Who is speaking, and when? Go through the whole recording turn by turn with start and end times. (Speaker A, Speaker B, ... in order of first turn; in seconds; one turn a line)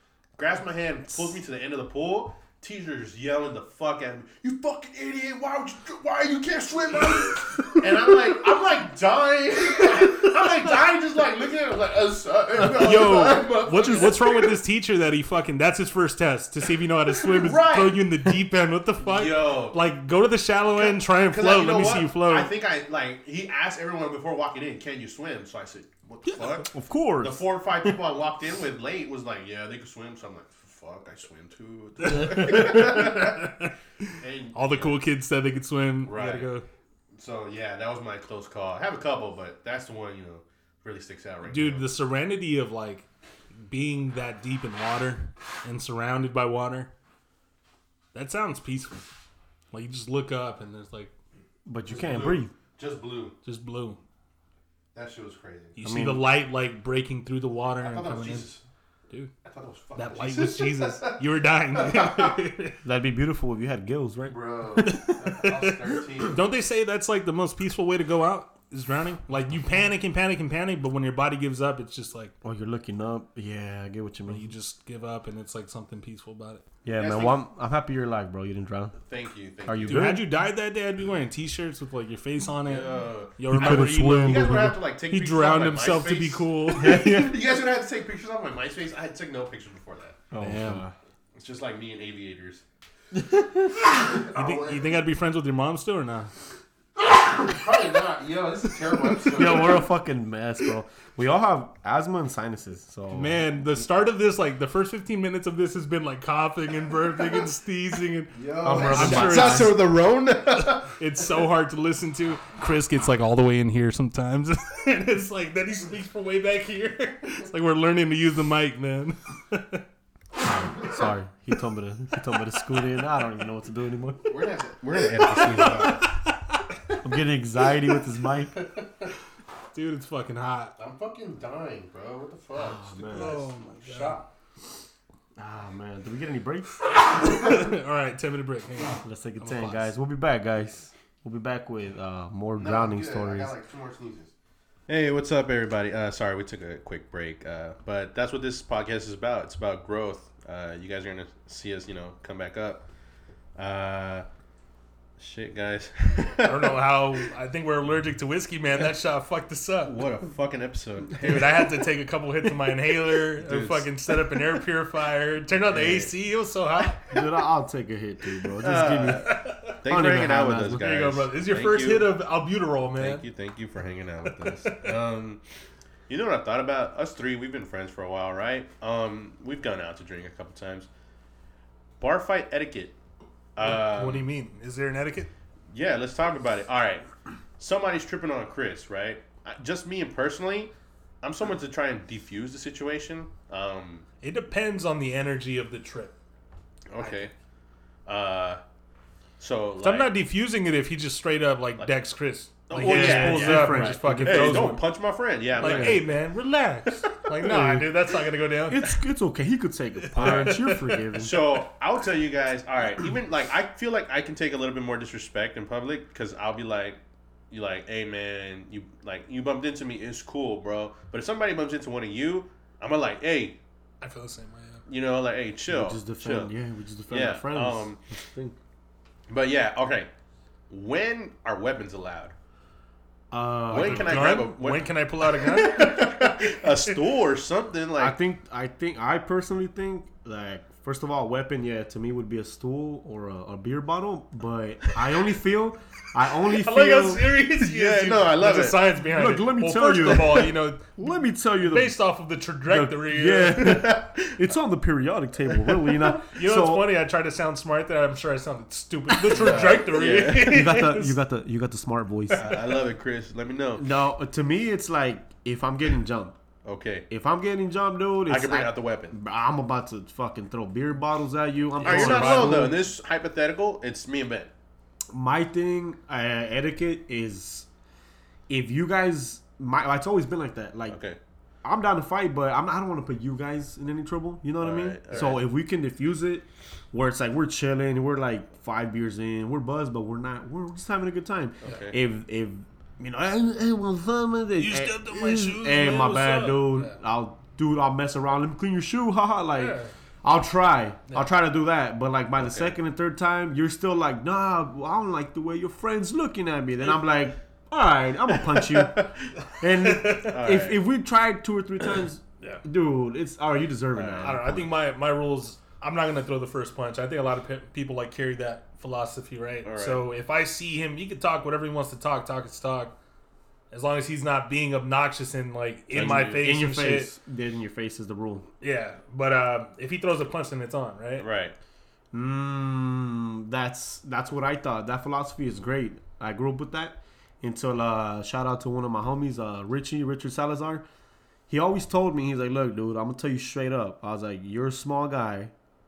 Speaker A: 0.4-14.6
Speaker B: 12.6-22.5
Speaker A: 17.2-18.1
Speaker A: 19.0-19.8
Speaker A: 20.7-33.5
Speaker B: 26.2-26.5
Speaker C: 26.7-27.9
Speaker B: 32.0-36.6
Speaker A: 34.2-35.0
Speaker A: 36.0-36.5
Speaker A: 37.1-41.9
Speaker B: 41.4-43.1
Speaker B: 43.6-46.9
Speaker B: 48.1-49.1
Speaker B: 49.7-51.1
Speaker C: 51.6-52.5
Speaker A: 51.9-53.4
Speaker B: 53.4-54.0
Speaker A: 54.9-55.8
Speaker B: 55.8-58.5
Speaker C: 55.8-56.2
Speaker A: 57.8-58.6
Speaker A: 59.4-61.2
Speaker B: 60.0-62.8
Speaker A: 61.8-62.3
Speaker C: 62.8-65.0
Speaker A: 64.3-66.4
Speaker B: 64.8-72.3
Speaker C: 72.4-74.5
Speaker B: 74.2-76.6
Speaker C: 76.8-78.9
Speaker A: 76.9-77.4
Speaker A: 79.0-80.2
Speaker C: 79.6-80.3
Speaker B: 79.9-87.0
Speaker A: 82.6-90.2
Speaker C: 83.5-84.8
Speaker C: 86.8-87.4
Speaker C: 90.3-90.9
Speaker B: 90.4-90.8
Speaker A: 91.3-92.6
Speaker C: 93.1-93.7
Speaker A: 93.8-94.9
Speaker B: 94.3-96.3
Speaker A: 97.0-99.8
Speaker C: 99.3-103.5
Speaker B: 103.1-109.7
Speaker A: 108.3-110.9
Speaker C: 108.6-109.8
Speaker B: 110.8-119.8
Speaker C: 120.4-124.3
Speaker B: 122.3-122.9
Speaker A: 124.3-126.2
Speaker B: 125.2-126.6
Speaker C: 127.0-128.5
Speaker A: 128.6-129.1
Speaker B: 129.7-130.7
Speaker A: 130.8-134.2
Speaker C: 132.5-133.4
Speaker B: 133.1-134.2
Speaker C: 135.4-136.8
Speaker B: 137.0-139.9
Speaker C: 139.0-143.5
Speaker A: 142.6-144.3
Speaker A: 144.9-152.8
Speaker A: 153.6-154.2
Speaker A: 155.2-156.9
Speaker B: 156.4-159.9
Speaker A: 159.8-161.8
Speaker B: 161.2-167.2
Speaker A: 163.3-163.9
Speaker A: 165.7-166.1
Speaker C: 167.1-170.9
Speaker A: 168.6-172.1
Speaker B: 169.2-169.8
Speaker B: 170.8-173.2
Speaker A: 172.9-175.4
Speaker B: 174.2-174.9
Speaker A: 176.1-180.9
Speaker A: 182.0-182.9
Speaker A: 183.6-184.3
Speaker B: 183.6-185.3
Speaker A: 185.7-187.1
Speaker A: 187.6-194.1
Speaker B: 194.2-196.1
Speaker A: 196.9-197.3
Speaker A: 198.1-198.6
Speaker A: 199.4-200.1
Speaker B: 199.8-204.8
Speaker A: 202.7-206.1
Speaker C: 202.8-204.8
Speaker C: 205.6-206.0
Speaker B: 205.6-208.9
Speaker C: 207.4-207.9
Speaker C: 208.7-211.4
Speaker B: 210.1-211.0
Speaker A: 210.2-217.0
Speaker A: 217.5-223.6
Speaker B: 224.0-224.8
Speaker A: 224.9-226.5
Speaker C: 225.7-228.6
Speaker A: 227.1-228.0
Speaker A: 229.3-230.1
Speaker A: 230.7-232.3
Speaker C: 233.3-234.3
Speaker B: 233.7-236.9
Speaker A: 233.7-238.2
Speaker C: 238.0-247.3
Speaker B: 246.5-251.0
Speaker A: 247.5-248.9
Speaker C: 249.1-252.0
Speaker B: 251.6-253.8
Speaker C: 252.7-257.0
Speaker A: 253.6-254.3
Speaker A: 255.5-255.9
Speaker B: 256.3-261.2
Speaker C: 259.2-262.7
Speaker A: 259.3-260.6
Speaker A: 262.4-263.9
Speaker C: 263.8-266.4
Speaker A: 266.6-267.1
Speaker C: 267.1-272.8
Speaker A: 268.2-269.1
Speaker B: 271.8-272.6
Speaker A: 271.8-274.5
Speaker C: 275.1-277.7
Speaker C: 278.5-281.0
Speaker A: 280.9-281.2
Speaker C: 281.6-314.7
Speaker A: 284.6-285.4
Speaker A: 291.6-292.0
Speaker B: 294.6-296.9
Speaker B: 299.6-299.9
Speaker A: 302.4-302.7
Speaker A: 308.5-309.3
Speaker B: 309.8-310.3
Speaker A: 310.2-310.8
Speaker A: 313.9-314.4
Speaker B: 314.2-322.9
Speaker A: 319.6-320.0
Speaker B: 323.7-327.1
Speaker A: 325.9-326.4
Speaker C: 326.3-328.5
Speaker B: 328.6-331.2
Speaker A: 331.2-331.5
Speaker C: 332.1-340.8
Speaker C: 341.5-345.5